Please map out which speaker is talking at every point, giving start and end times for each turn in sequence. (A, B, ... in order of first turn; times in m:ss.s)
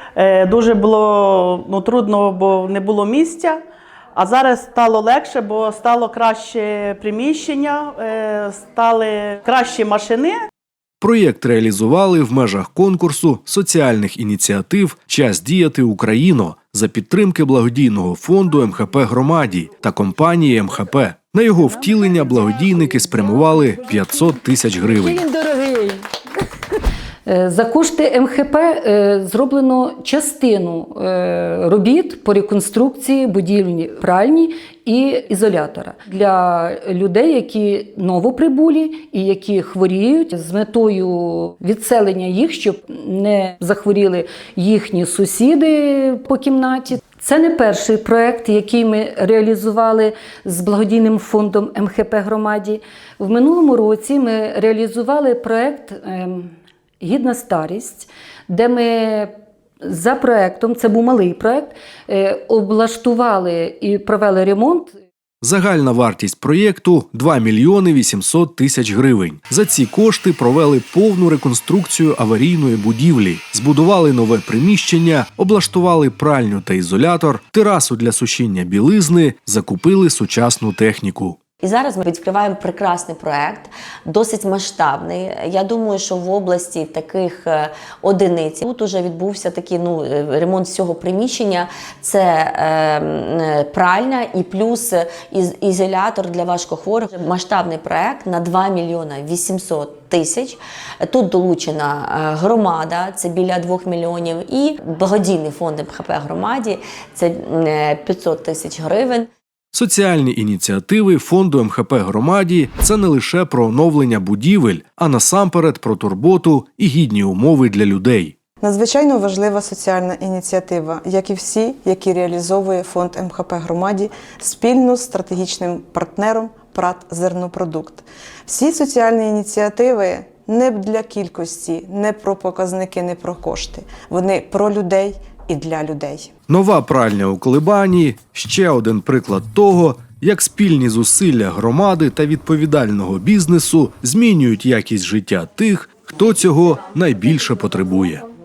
0:00.2-0:03.6 A
0:04.2-0:10.3 A
0:11.0-0:25.2 B
0:25.3-0:26.0 C
0:27.2-1:05.0 C
1:05.4-1:21.4 B
1:21.6-1:49.3 D
1:49.7-1:58.4 B
1:58.6-2:16.3 E
2:16.5-2:28.2 B